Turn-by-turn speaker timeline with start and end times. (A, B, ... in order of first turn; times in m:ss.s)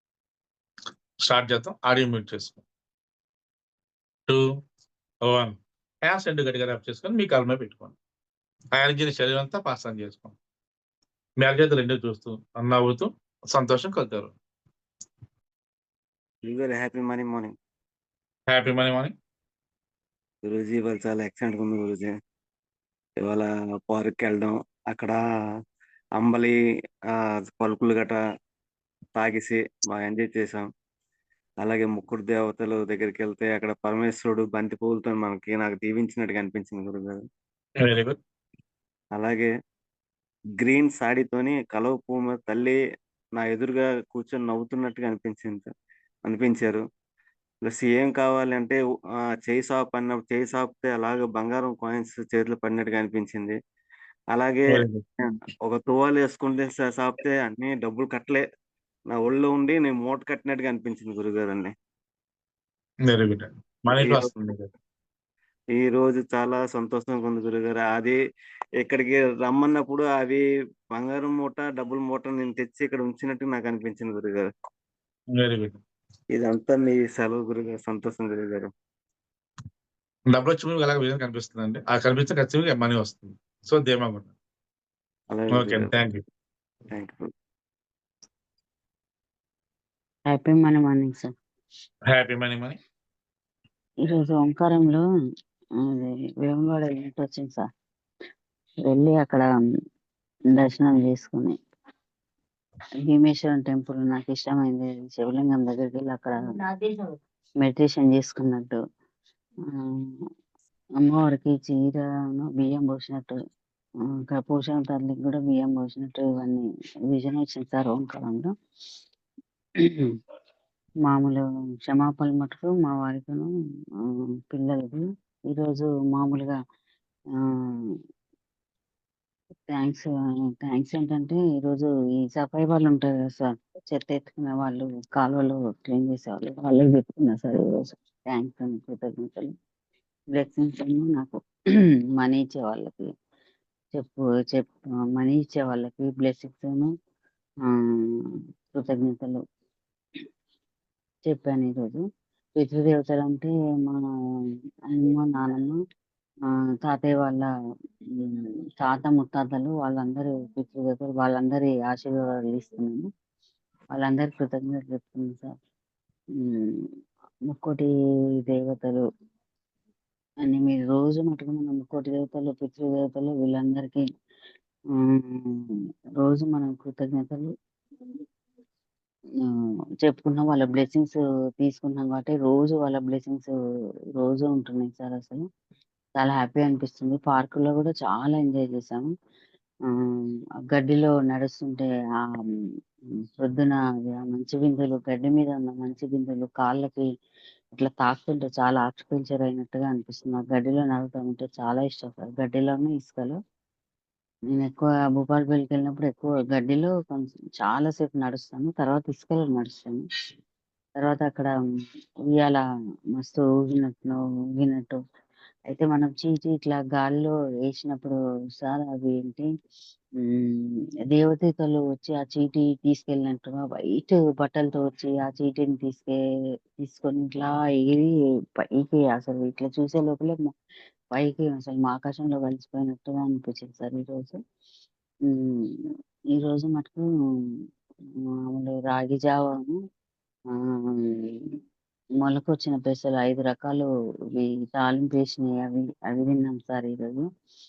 0:01.2-0:02.6 A
0:04.3-0:04.5 A
0:05.2-0:07.9 A
0:08.7-0:10.4 A
0:11.4-0:14.3 A
0:16.4-0:17.5 B
0:18.5-0:19.1 A
0:20.4-0:22.1 B
0:23.2-0:25.2 B
0:26.2-0:26.5 B
0:27.1-0:28.2 B
0:29.2-0:30.6 B
0:31.6-0:37.2 B
0:37.8-0:38.2 A
0:39.1-0:39.5 B
0:40.6-0:42.8 B
0:43.4-0:45.7 B
0:46.2-0:46.8 B
0:47.6-0:53.6 B
0:54.3-0:58.4 B
0:54.7-0:55.0 A
0:59.1-1:01.7 B
1:03.0-1:04.7 A
1:03.9-1:04.3 B
1:05.7-1:08.2 B
1:08.8-1:10.4 B
1:10.9-1:14.5 B
1:15.3-1:15.8 A
1:16.3-1:18.7 B
1:20.3-1:24.3 A
1:25.3-1:25.9 B
1:25.5-1:26.2 A
1:26.9-1:27.3 B
1:30.3-1:31.3 C
1:32.1-1:32.8 A
1:34.0-1:35.0 C
1:35.9-1:37.6 C
1:38.8-1:39.4 C
1:40.5-1:41.6 C
1:43.1-1:47.0 C
1:47.6-1:48.8 C
1:49.8-1:50.1 C
1:51.0-1:53.4 C
1:54.3-1:58.5 C
2:01.0-2:03.5 C
2:04.0-2:06.6 C
2:07.7-2:07.9 C
2:09.7-2:10.1 C
2:10.6-2:19.5 C
2:20.3-2:21.4 C
2:22.2-2:23.1 C
2:23.9-2:26.9 C
2:27.7-2:28.2 C
2:28.7-2:29.4 C
2:31.3-2:32.0 C
2:32.6-2:34.0 C
2:34.9-2:35.8 C
2:36.8-2:37.5 C
2:38.2-2:43.0 C
2:43.9-2:45.5 C
2:46.4-2:46.9 C
2:47.5-2:47.9 C
2:48.4-2:49.0 C
2:50.4-2:54.0 C
2:55.0-2:57.5 C
3:00.0-3:03.5 C
3:04.2-3:05.4 C
3:06.2-3:09.1 C
3:10.7-3:11.9 C
3:13.4-3:17.0 C
3:17.8-3:23.4 C
3:24.5-3:30.0 C
3:31.0-3:31.5 C
3:32.3-3:32.6 C
3:33.2-3:35.0 C
3:35.7-3:39.5 C
3:40.2-3:46.2 C
3:46.8-3:50.5 C
3:51.1-3:54.4 C
3:55.3-3:55.7 C
3:56.3-3:57.0 C
3:58.5-3:59.8 C
4:00.7-4:01.3 C
4:02.2-4:07.3 C